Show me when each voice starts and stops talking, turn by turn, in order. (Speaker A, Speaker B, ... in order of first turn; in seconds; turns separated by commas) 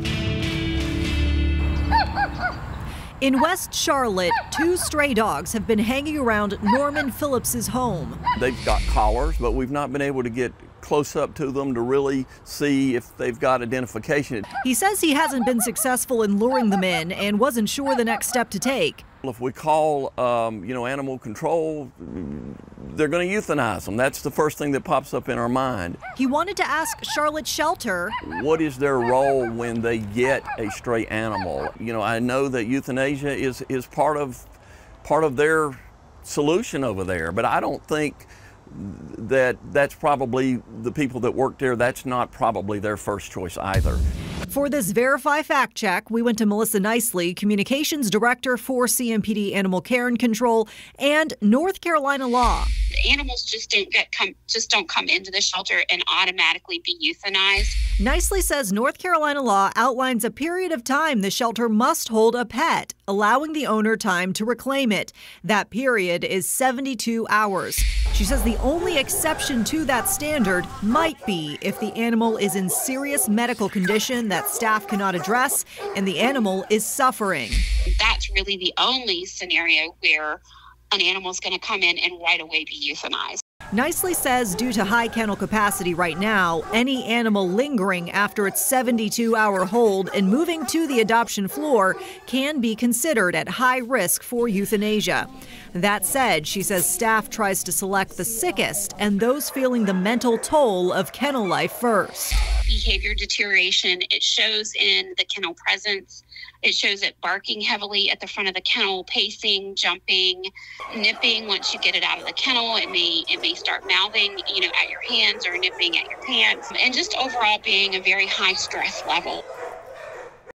Speaker A: 3.2-8.2, Speaker B: 8.3-14.5, Speaker A: 14.6-19.0, Speaker B: 19.2-26.0, Speaker A: 26.1-28.1, Speaker B: 28.2-34.4, Speaker B: 35.0-44.0, Speaker A: 44.5-52.7, Speaker C: 53.0-57.8, Speaker A: 58.0-77.6, Speaker C: 77.9-83.4, Speaker A: 83.7-102.4, Speaker C: 102.7-119.4